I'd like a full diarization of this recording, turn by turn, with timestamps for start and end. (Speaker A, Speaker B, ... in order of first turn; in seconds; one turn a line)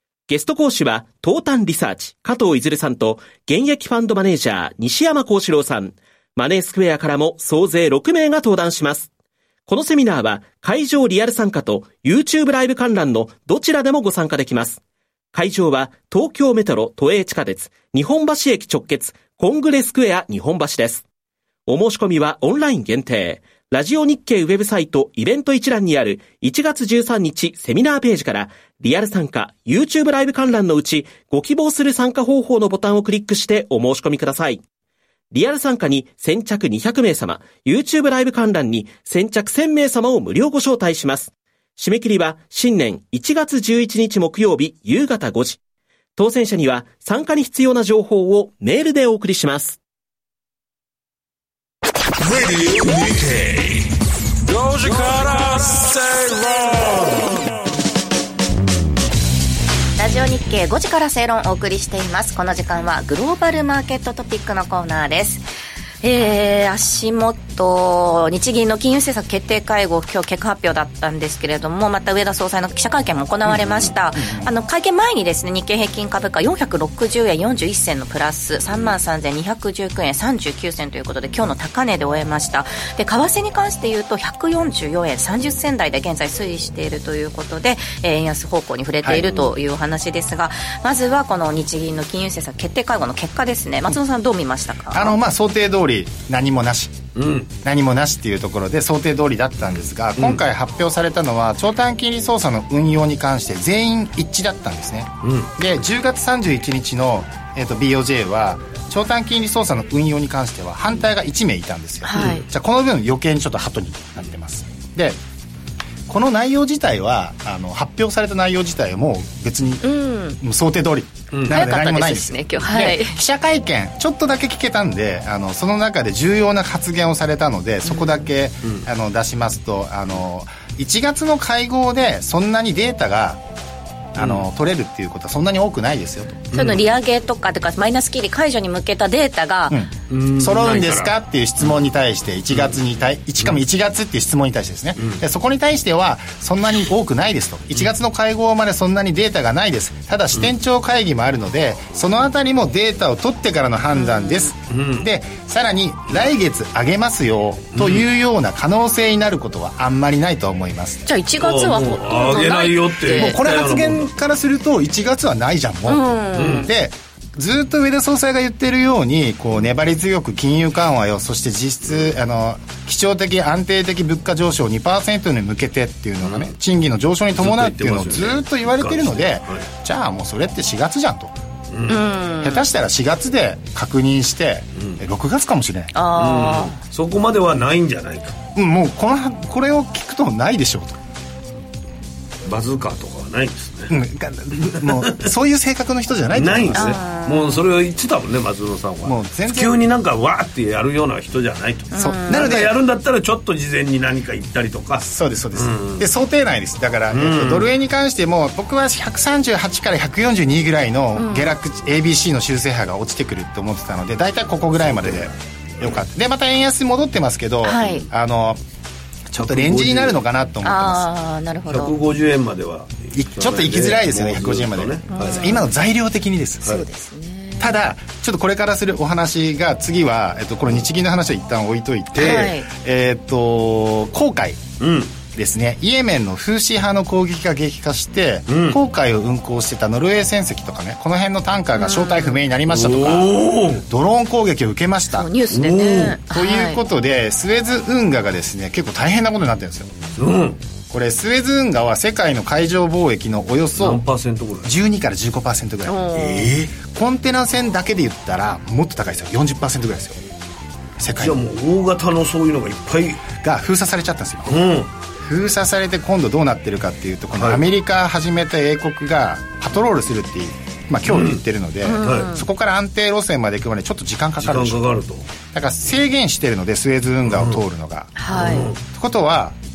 Speaker A: 0.3-9.1
Speaker A: 9.7-14.8
Speaker A: 15.3-21.0
Speaker A: 21.7-34.6
Speaker A: 35.3-45.6
Speaker A: 46.2-49.8
Speaker B: 52.2-53.9
Speaker B: 54.5-57.4
Speaker C: 60.0-65.4
Speaker C: 66.0-95.2
Speaker D: 94.9-97.0
Speaker E: 97.2-97.5
Speaker D: 97.6-115.2
Speaker E: 100.2-100.4
Speaker E: 105.2-105.5
Speaker C: 112.0-112.5
Speaker E: 112.1-112.5
Speaker D: 116.1-133.4
Speaker C: 119.8-120.4
Speaker E: 121.3-121.6
Speaker C: 121.5-123.2
Speaker C: 127.8-128.2
Speaker D: 134.1-136.5
Speaker E: 134.2-134.5
Speaker E: 136.5-136.8
Speaker C: 136.5-139.8
Speaker D: 139.7-161.0
Speaker E: 140.1-141.8
Speaker C: 153.9-154.5
Speaker E: 154.7-155.1
Speaker E: 157.7-158.1
Speaker C: 161.1-163.4
Speaker E: 161.4-164.1
Speaker D: 163.1-181.3
Speaker C: 165.9-166.7
Speaker E: 166.4-166.7
Speaker E: 176.2-176.5
Speaker E: 177.4-179.7
Speaker E: 181.7-182.0
Speaker C: 181.9-182.7
Speaker D: 182.4-185.9
Speaker C: 185.9-186.8
Speaker E: 186.1-188.4
Speaker D: 188.6-191.0
Speaker E: 192.4-193.9
Speaker D: 193.9-197.0
Speaker E: 194.6-195.3
Speaker E: 196.3-206.1
Speaker C: 196.8-197.6
Speaker D: 199.0-199.8
Speaker C: 201.9-202.6
Speaker D: 202.0-202.8
Speaker D: 205.0-218.6
Speaker E: 207.1-207.7
Speaker C: 211.2-211.5
Speaker E: 214.9-215.3
Speaker C: 217.6-218.1
Speaker D: 219.3-221.1
Speaker E: 219.4-220.2
Speaker C: 220.6-221.9
Speaker E: 221.7-225.6
Speaker D: 223.1-226.8
Speaker C: 225.1-225.7
Speaker C: 226.7-227.8
Speaker D: 227.6-234.6
Speaker E: 232.1-232.5
Speaker C: 232.2-232.7
Speaker E: 234.8-235.1
Speaker D: 235.3-245.3
Speaker E: 238.5-238.8
Speaker C: 241.8-242.4
Speaker E: 242.7-243.8
Speaker C: 245.1-246.8
Speaker E: 245.5-246.2
Speaker D: 246.3-249.9
Speaker E: 250.2-250.6
Speaker D: 250.9-254.0
Speaker E: 253.8-254.7
Speaker D: 254.6-256.1
Speaker C: 255.9-256.5
Speaker E: 256.1-256.7
Speaker D: 256.8-260.2
Speaker D: 261.0-261.4
Speaker E: 261.2-263.2
Speaker D: 263.4-264.6
Speaker E: 264.5-264.9
Speaker D: 265.2-274.8
Speaker E: 267.3-267.6
Speaker E: 271.1-271.4
Speaker C: 271.8-272.4
Speaker E: 272.0-272.3
Speaker E: 274.4-275.3
Speaker D: 275.5-278.2
Speaker E: 277.3-277.6
Speaker C: 278.2-278.7
Speaker E: 278.3-278.8
Speaker D: 278.8-279.6